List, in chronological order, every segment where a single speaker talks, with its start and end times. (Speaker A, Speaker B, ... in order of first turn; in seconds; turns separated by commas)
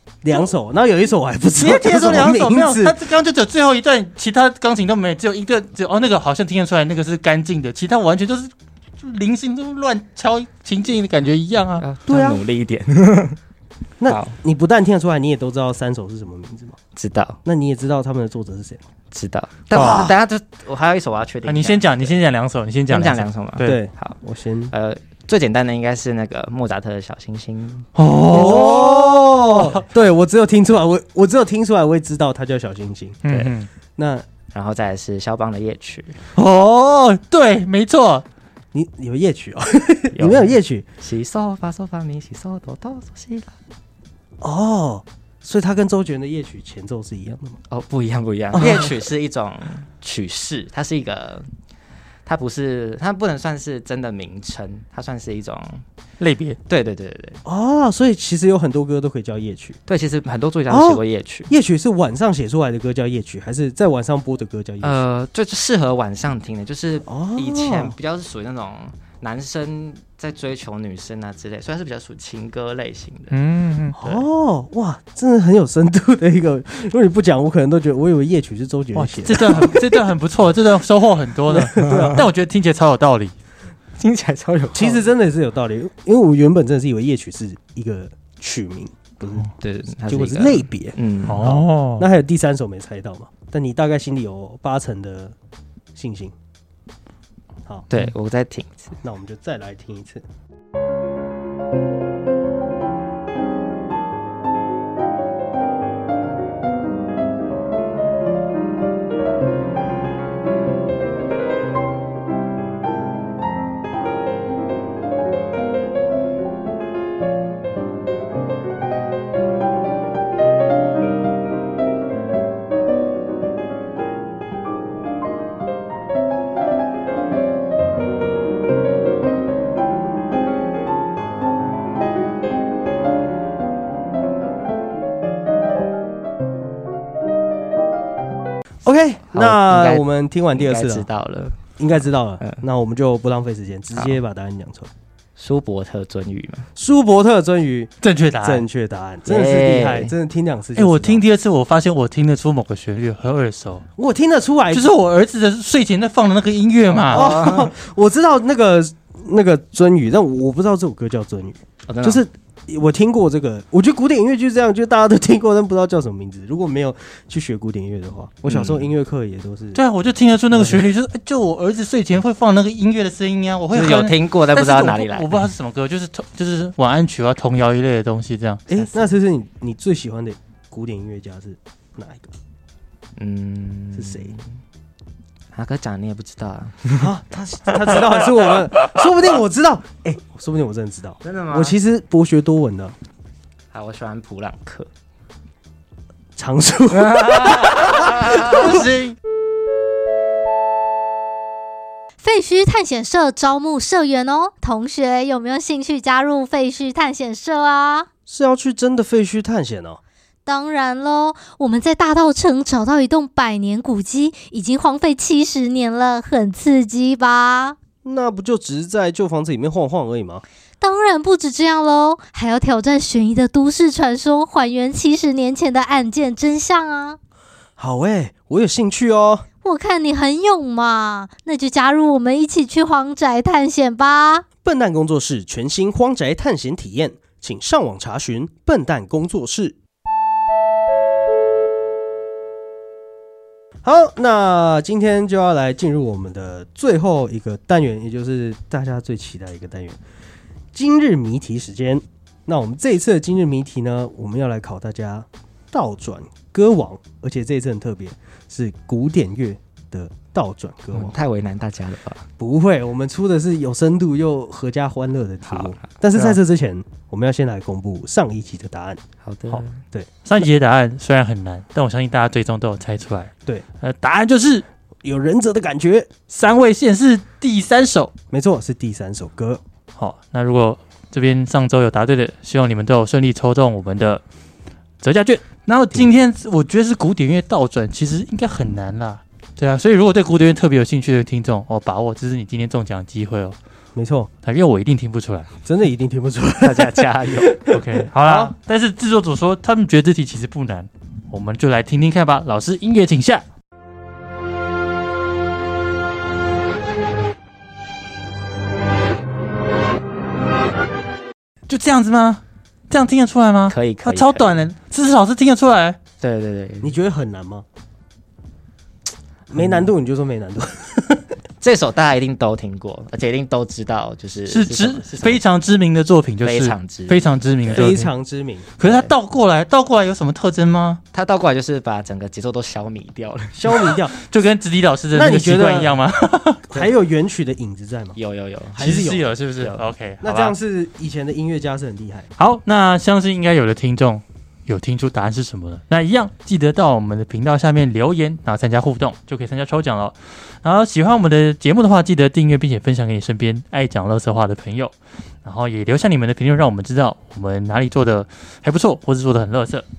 Speaker A: 0.2-3.0, Speaker B: 1.5-11.8, Speaker C: 11.8-13.4, Speaker A: 12.1-12.4, Speaker A: 14.0-16.8, Speaker C: 14.1-14.3, Speaker C: 16.9-17.4, Speaker A: 17.4-18.8, Speaker C: 19.1-22.1, Speaker B: 19.7-20.1, Speaker A: 19.8-20.1, Speaker B: 21.4-23.8, Speaker C: 22.9-24.2, Speaker A: 23.6-24.7, Speaker C: 24.7-27.9, Speaker B: 27.9-29.8, Speaker A: 28.3-33.2, Speaker B: 33.2-33.7, Speaker C: 33.3-33.5, Speaker A: 34.0-34.2, Speaker C: 34.5-36.2, Speaker B: 36.3-38.2, Speaker A: 38.7-40.9, Speaker C: 40.1-43.5, Speaker A: 44.4-47.6, Speaker C: 47.7-51.5, Speaker A: 48.5-48.9, Speaker C: 52.2-55.8, Speaker B: 56.2-56.6, Speaker C: 56.7-57.4, Speaker A: 57.4-59.8, Speaker C: 59.9-61.5, Speaker A: 60.7-65.0, Speaker C: 64.8-73.4, Speaker A: 67.0-68.0, Speaker B: 73.3-74.0, Speaker A: 74.0-80.0, Speaker C: 74.0-74.2, Speaker B: 78.9-83.3, Speaker A: 81.5-82.3, Speaker C: 81.9-82.2, Speaker C: 84.0-85.0, Speaker A: 84.7-89.5, Speaker C: 89.6-91.5, Speaker A: 90.0-95.3, Speaker B: 91.3-92.1, Speaker A: 95.9-96.3, Speaker C: 97.9-99.0, Speaker A: 99.0-100.2, Speaker A: 138.8-141.1, Speaker C: 139.3-141.6, Speaker A: 141.8-144.9, Speaker C: 143.9-144.2, Speaker C: 145.4-146.7, Speaker A: 146.8-151.2, Speaker B: 148.0-148.6, Speaker C: 149.2-150.1, Speaker B: 150.7-153.8, Speaker A: 153.9-154.9, Speaker B: 154.7-157.2, Speaker C: 156.9-157.7, Speaker A: 157.1-169.8, Speaker C: 161.9-162.2, Speaker C: 168.4-168.8, Speaker B: 169.7-178.6, Speaker A: 170.5-170.8, Speaker C: 173.7-175.3, Speaker A: 178.7-182.3, Speaker C: 178.7-179.1, Speaker C: 183.2-184.4, Speaker A: 183.9-184.3, Speaker C: 185.5-187.1, Speaker A: 187.0-192.9, Speaker C: 191.2-191.8, Speaker C: 193.7-194.9, Speaker A: 196.4-198.4, Speaker C: 196.9-198.8, Speaker B: 198.4-199.2, Speaker D: 202.2-208.1, Speaker A: 208.3-210.0, Speaker D: 210.4-217.8, Speaker A: 218.0-220.4, Speaker D: 220.8-227.2, Speaker A: 227.8-229.4, Speaker D: 229.6-234.4, Speaker A: 234.6-239.8, Speaker A: 243.8-250.0, Speaker A: 250.7-261.2, Speaker C: 260.9-262.2, Speaker A: 262.4-269.0, Speaker C: 265.4-266.3, Speaker C: 269.2-269.8, Speaker B: 270.2-273.3, Speaker B: 273.8-274.6, Speaker A: 275.0-276.1, Speaker B: 276.3-278.1, Speaker A: 278.3-279.6, Speaker B: 280.0-284.2, Speaker B: 285.0-293.6, Speaker A: 293.9-294.3, Speaker B: 294.4-295.5, Speaker A: 295.6-298.5, Speaker C: 296.6-297.6, Speaker B: 297.7-303.4, Speaker B: 311.7-316.0, Speaker C: 313.7-314.7, Speaker C: 316.2-316.9, Speaker A: 316.8-317.6, Speaker A: 319.5-321.3, Speaker C: 321.6-325.4, Speaker B: 324.5-328.1, Speaker C: 326.4-327.9, Speaker A: 327.7-328.7, Speaker B: 328.8-331.0, Speaker C: 328.8-329.1, Speaker C: 331.1-333.8, Speaker A: 333.5-334.1, Speaker B: 334.2-336.9, Speaker A: 335.1-336.0, Speaker A: 336.7-338.2, Speaker C: 338.1-339.0, Speaker A: 338.7-339.3, Speaker B: 338.7-340.6, Speaker C: 339.6-339.8, Speaker A: 340.2-342.3, Speaker B: 342.4-359.9